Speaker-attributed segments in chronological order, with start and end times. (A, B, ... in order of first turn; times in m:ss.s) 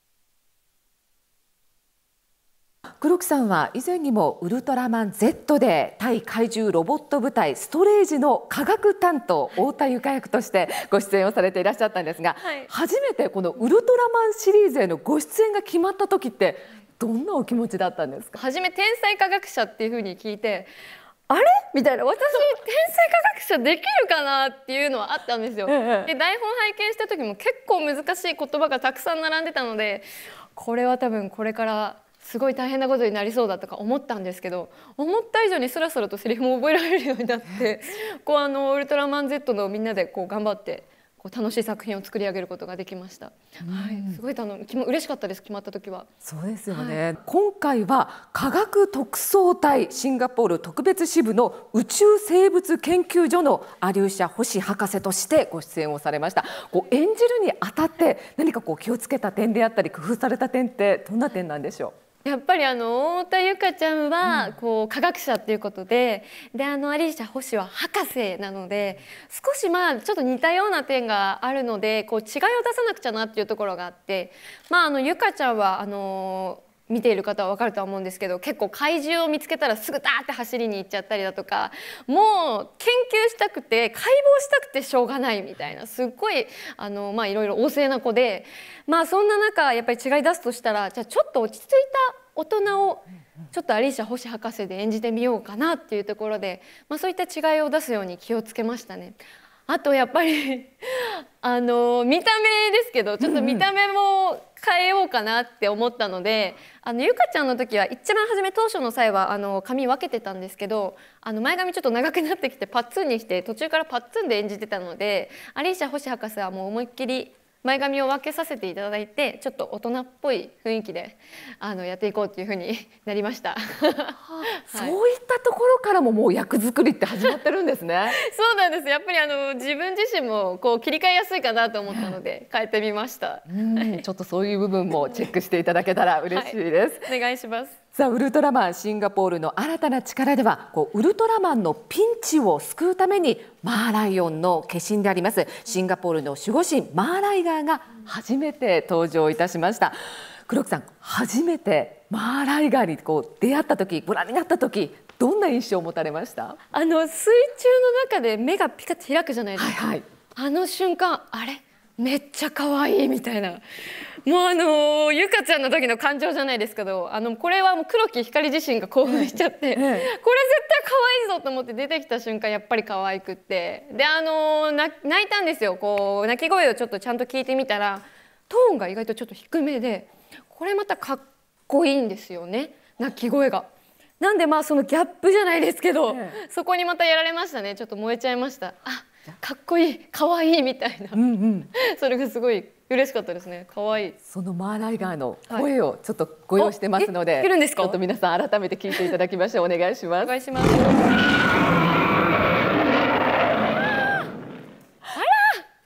0:03.0-0:18.4 A
0:12.4-0:12.7 B
0:18.3-0:20.7 B
0:21.3-0:46.1 B
0:25.7-0:26.1 A
0:43.6-0:44.2 A
0:46.2-1:01.9 A
0:46.7-0:47.0 B
1:02.2-2:05.0 B
1:04.2-1:04.5 A
1:43.2-1:43.6 A
2:04.1-2:08.2 A
2:08.1-2:14.0 B
2:13.5-2:17.1 A
2:16.3-2:17.8 B
2:17.9-2:30.0 A
2:30.5-2:36.6 A
2:36.7-2:39.8 B
2:39.6-2:40.0 A
2:40.3-2:43.6 B
2:44.2-3:03.7 B
2:49.1-2:50.1 A
3:04.2-3:14.2 B
3:06.1-3:06.4 A
3:11.1-3:11.7 A
3:14.2-3:20.3 A
3:16.6-3:18.0 B
3:20.2-3:21.1 B
3:25.1-3:25.6 B